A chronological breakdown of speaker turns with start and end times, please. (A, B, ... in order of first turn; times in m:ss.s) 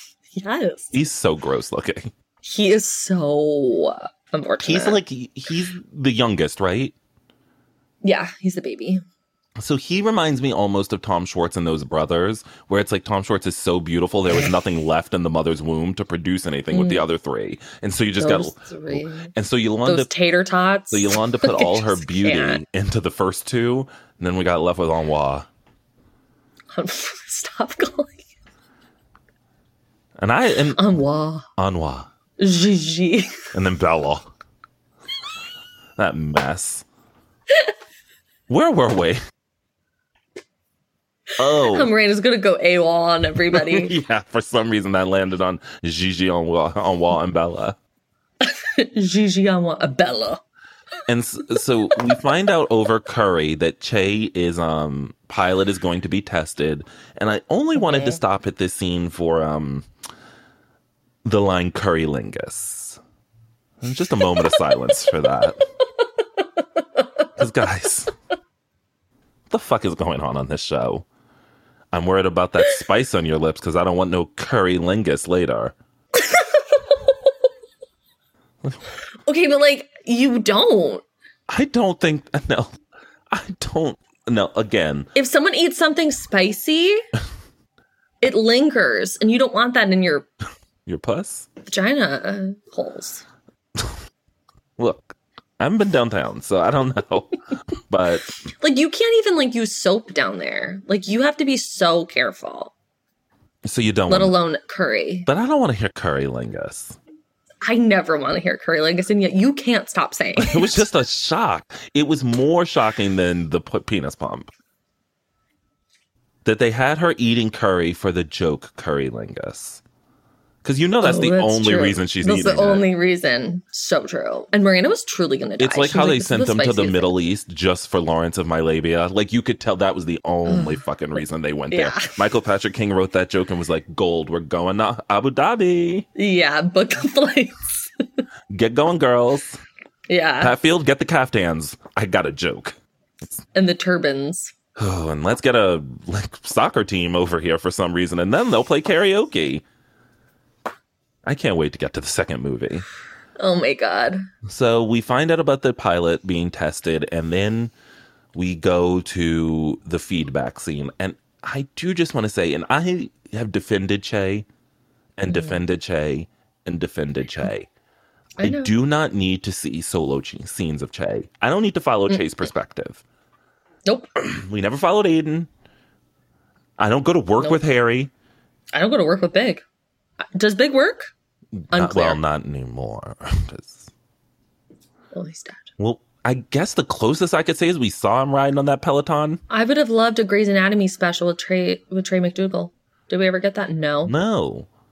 0:00.3-0:01.0 A
0:00.9-0:02.1 B
0:02.4-0:05.0 A
0:04.6-0:07.0 B
0:08.0-0:09.0 A
0:09.6-0:20.1 B
0:16.7-0:17.1 A
0:18.2-0:19.3 A
0:19.9-0:22.6 A
0:20.9-0:25.5 B
0:26.7-0:28.2 A
0:30.2-0:30.9 B
0:30.8-0:31.5 A
0:31.6-0:32.1 B
0:32.4-0:33.5 A
0:33.5-0:34.3 B
0:36.0-0:36.8 B
0:38.5-0:39.2 B
0:41.4-0:41.9 B
0:41.5-0:44.0 A
0:43.5-0:47.8 B
0:48.4-0:50.4 A
0:51.1-0:59.9 B
0:57.8-0:58.2 A
1:01.2-1:03.0 B
1:03.8-1:05.6 B
1:07.4-1:08.1 B
1:09.5-1:11.1 B
1:11.9-1:15.8 B
1:16.2-1:17.3 A
1:19.3-1:21.0 A
1:21.5-1:22.7 B
1:23.3-1:25.1 B
1:25.2-1:27.0 A
1:28.2-1:30.3 A
1:30.9-1:31.5 B
1:31.6-1:33.2 A
1:34.8-1:38.3 B
1:38.6-1:42.7 A
1:43.6-1:44.3 B
1:44.1-1:45.3 A
1:45.3-1:47.0 B
1:47.6-1:50.9 A
1:50.4-1:54.5 B
1:56.4-1:59.8 B
2:00.6-2:02.9 B
2:01.0-2:07.1 A
2:05.6-2:16.1 B
2:10.5-2:10.8 A
2:11.7-2:12.2 A
2:16.2-2:17.9 A
2:18.5-2:19.6 B
2:20.1-2:20.6 A
2:20.4-2:22.8 B
2:23.5-2:24.5 A
2:24.8-2:29.6 B
2:31.2-2:32.9 B
2:33.4-2:34.2 A
2:34.4-2:37.7 B
2:38.3-2:44.5 B
2:45.2-2:47.7 B
2:45.3-2:45.6 A
2:48.4-2:48.7 A
2:48.4-2:53.0 B
2:52.1-2:52.4 A
2:53.9-2:54.1 A
2:54.2-2:55.5 B
2:56.8-2:58.1 B
2:58.7-2:59.6 A
3:00.4-3:01.1 A
3:01.6-3:03.9 B
3:01.7-3:02.2 A
3:05.1-3:05.7 A
3:05.8-3:09.4 B
3:09.5-3:14.1 A
3:14.1-3:14.7 B